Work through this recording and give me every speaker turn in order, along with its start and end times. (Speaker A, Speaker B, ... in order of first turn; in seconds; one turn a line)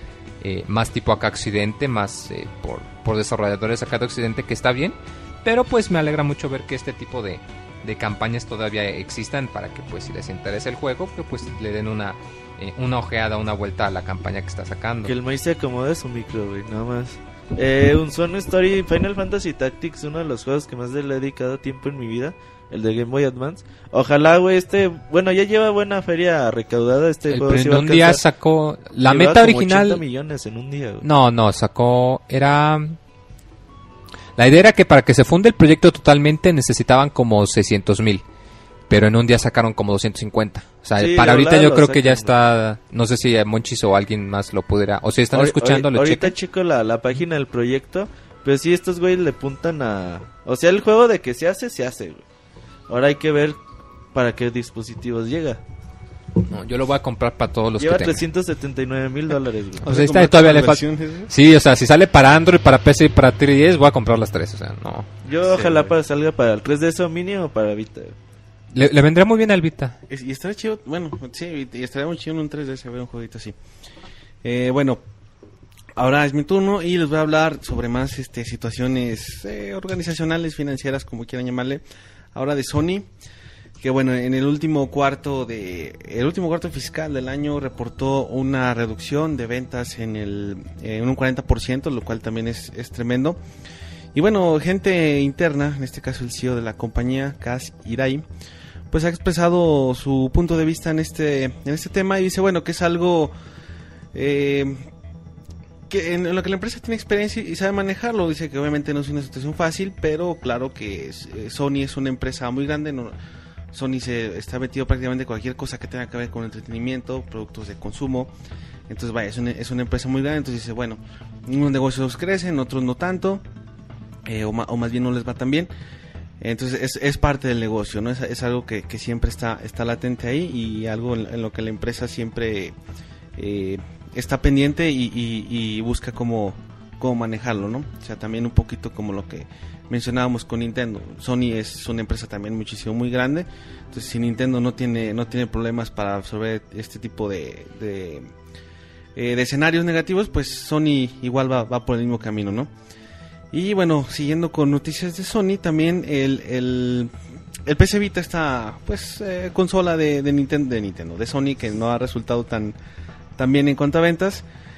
Speaker A: 0.4-15.1
Speaker B: 15.0-28.2
Speaker A: 27.3-30.0
Speaker B: 29.1-31.1
Speaker A: 31.0-33.0
Speaker A: 34.4-38.2
Speaker A: 38.9-46.3
Speaker B: 41.0-42.3
Speaker B: 45.3-52.2
Speaker B: 52.9-53.6
Speaker B: 54.1-55.6
Speaker A: 56.4-58.2
Speaker B: 57.8-59.9
Speaker C: 59.8-61.3
Speaker A: 59.8-65.1
Speaker B: 65.2-68.2
Speaker A: 68.7-70.0
Speaker C: 70.1-73.6
Speaker C: 74.4-75.0
Speaker C: 76.0-81.8
Speaker C: 82.3-83.1
Speaker C: 83.8-93.4
Speaker C: 94.2-98.2
Speaker C: 98.9-103.3
Speaker C: 104.1-104.9
Speaker C: 105.9-113.2
Speaker C: 113.7-118.3
Speaker C: 118.9-123.4
Speaker C: 124.3-125.7
Speaker C: 126.4-132.8
Speaker C: 133.4-148.3
Speaker C: 149.2-152.7
Speaker C: 153.5-157.1
Speaker C: 157.7-162.8
Speaker C: 163.4-164.5